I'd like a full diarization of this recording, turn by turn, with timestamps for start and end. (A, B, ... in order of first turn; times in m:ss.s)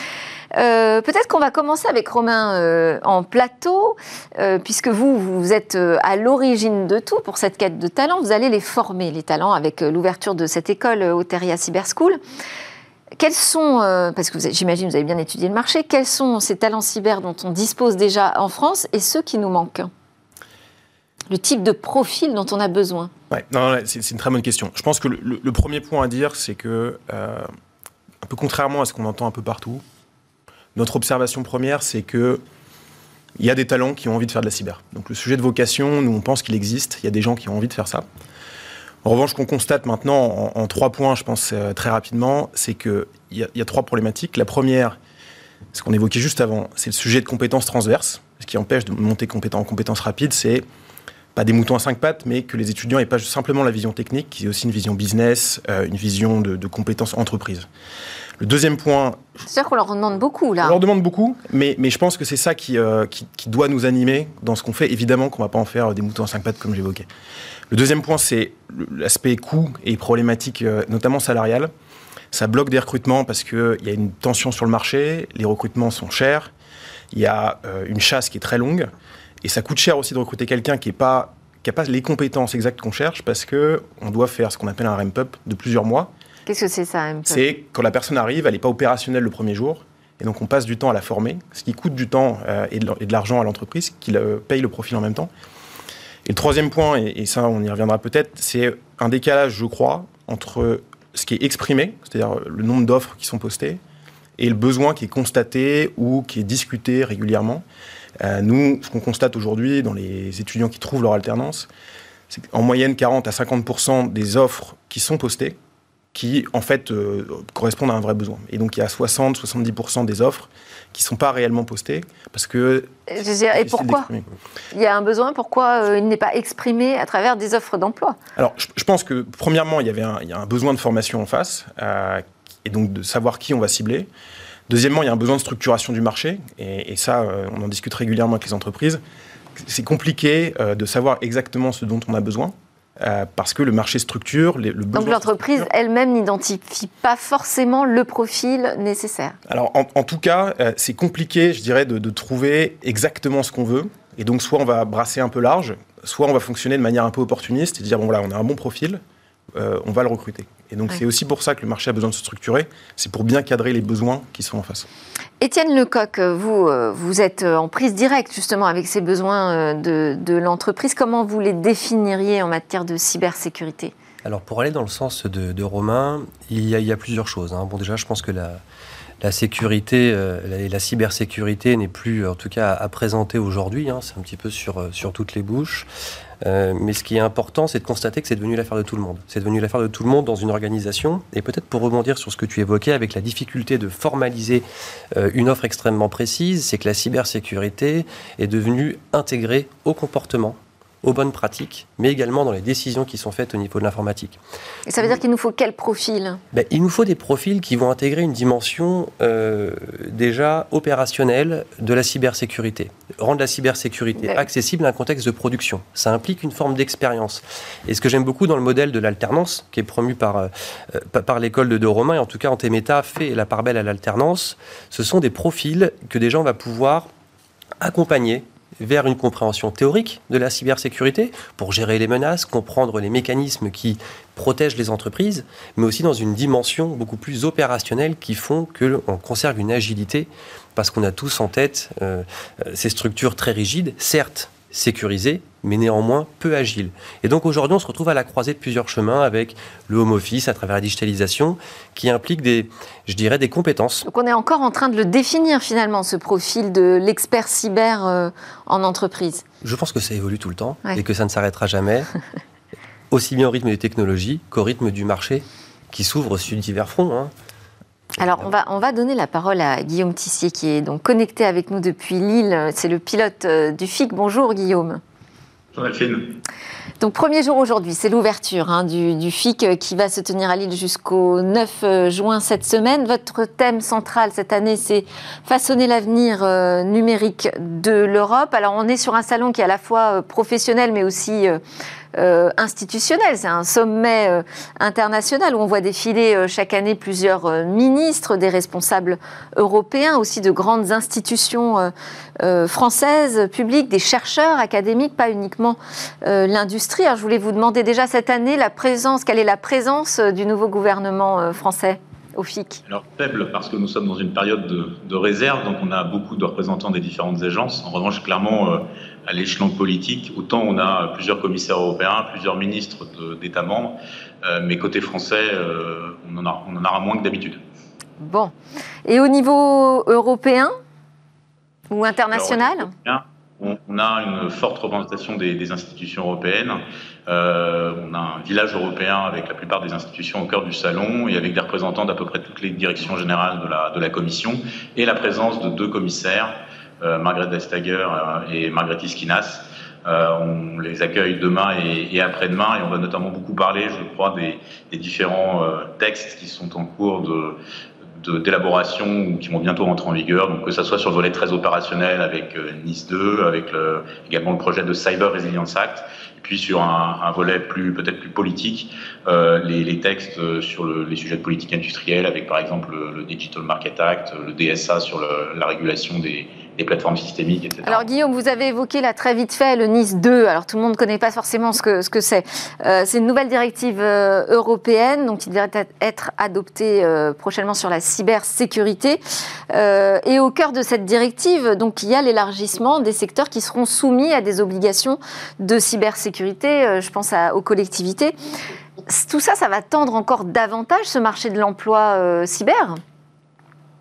0:00.6-0:12.2 A
0:13.2-0:19.9 A
0:21.3-0:23.1 A
0:23.3-0:27.5 B
0:28.2-0:29.8 B
0:30.8-0:32.4 B
0:33.4-0:38.1 B
0:39.0-0:45.0 B
0:45.7-0:50.6 B
0:51.3-0:57.7 B
0:58.4-0:59.2 B
0:59.5-1:00.8 A
1:00.6-1:07.1 B
1:07.7-1:11.7 B
1:12.3-1:16.5 B
1:17.1-1:18.9 B
1:19.4-1:26.1 B
1:26.5-1:27.4 A
1:27.3-1:35.3 B
1:36.2-1:43.8 B
1:44.4-1:47.6 B
1:48.2-1:51.7 B
1:52.3-1:55.6 B
1:56.1-2:04.3 B
2:03.1-2:04.1 A
2:04.7-2:08.2 A
2:08.4-2:14.1 B
2:14.7-2:19.0 B
2:19.6-2:25.7 B
2:24.9-2:29.4 A
2:29.5-2:39.0 B
2:39.5-2:44.9 B
2:45.4-2:53.9 A
2:54.2-2:58.6 C
2:59.2-3:05.9 C
3:06.4-3:24.4 C
3:24.9-3:26.4 A
3:26.5-3:47.1 C
3:47.8-4:14.1 C
4:14.1-4:19.4 A
4:19.6-4:22.1 C
4:23.1-4:27.3 C
4:28.2-4:35.0 A
4:35.7-4:36.4 D
4:37.0-4:51.6 A
4:52.2-5:12.8 A
5:12.9-5:27.6 D
5:28.2-5:28.5 A
5:29.1-5:30.7 A
5:31.9-5:32.9 A
5:32.3-5:57.6 D
5:58.2-6:18.1 D
6:17.8-6:38.4 A
6:39.1-6:43.0 A